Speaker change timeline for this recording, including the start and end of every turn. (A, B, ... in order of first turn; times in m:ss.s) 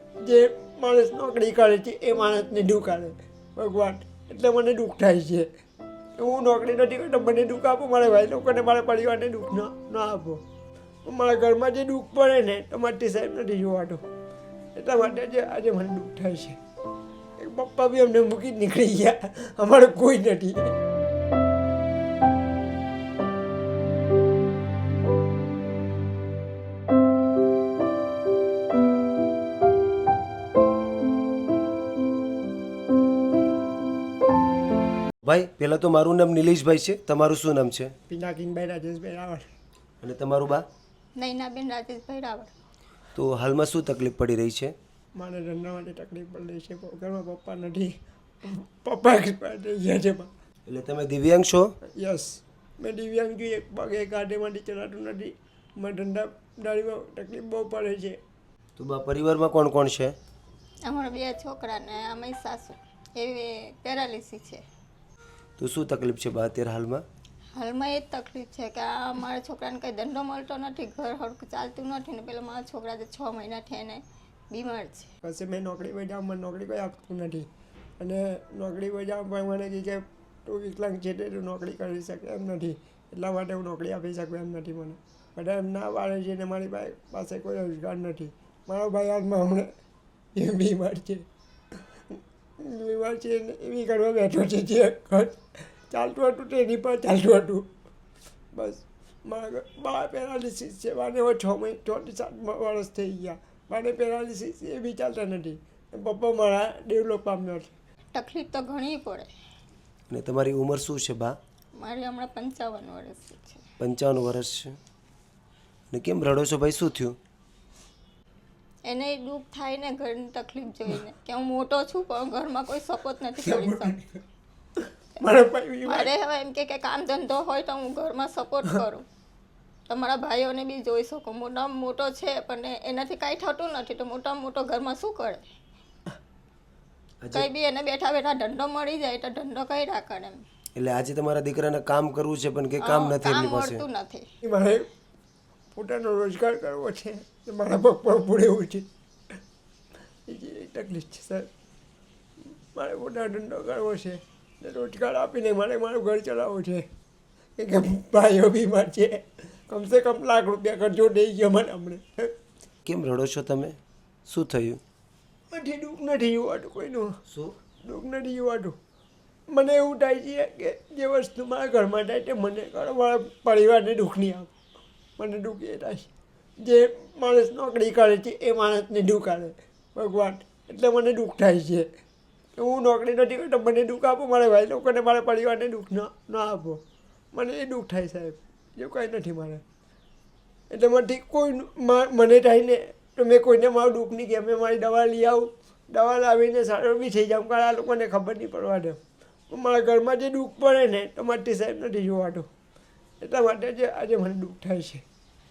0:00.2-0:05.5 A
0:06.2-0:10.4 A
0:11.0-0:14.0 A
0:14.8-0:16.6 A
0:17.4-0:20.7 A
0:35.2-0:37.9 B
0:38.1-0:39.4 A
0:40.0-0:40.6 B
0:41.2-0:42.5 C
0:43.1-0:44.7 B
0:45.2-0:50.3 A
0:50.6-0:51.7 B
0:52.0-0:58.2 A
0:58.8-1:00.1 B
1:00.8-1:04.6 C
1:05.6-1:07.0 B
1:07.5-1:15.1 C
1:15.2-1:17.5 A
1:18.0-1:29.7 A
1:30.3-1:31.2 A
1:32.6-1:35.4 A
1:35.9-1:37.7 A
1:38.5-1:47.7 A
1:48.1-1:49.3 C
1:50.1-1:51.3 B
1:51.8-1:53.6 C
1:53.8-1:54.8 B
1:55.9-1:57.2 B
1:58.8-2:04.0 C
2:03.4-2:04.0 A
2:05.2-2:06.1 A
2:05.8-2:09.0 C
2:09.9-2:15.5 C
2:17.2-2:17.5 B
2:17.3-2:20.4 C
2:20.8-2:23.8 B
2:22.8-2:24.2 C
2:24.4-2:24.9 A
2:25.7-2:28.9 A
2:30.3-2:31.5 A
2:32.7-2:36.8 A
2:37.6-2:42.0 A
2:42.8-2:44.8 B
2:45.5-2:47.2 A
2:47.3-2:47.6 B
2:47.8-2:48.8 A
2:49.5-2:54.5 A
2:55.2-2:56.1 A
2:56.6-3:01.9 A
3:02.6-3:06.8 A
3:07.3-3:09.6 A
3:10.7-3:19.0 A
3:19.5-3:22.5 A
3:23.2-3:25.0 A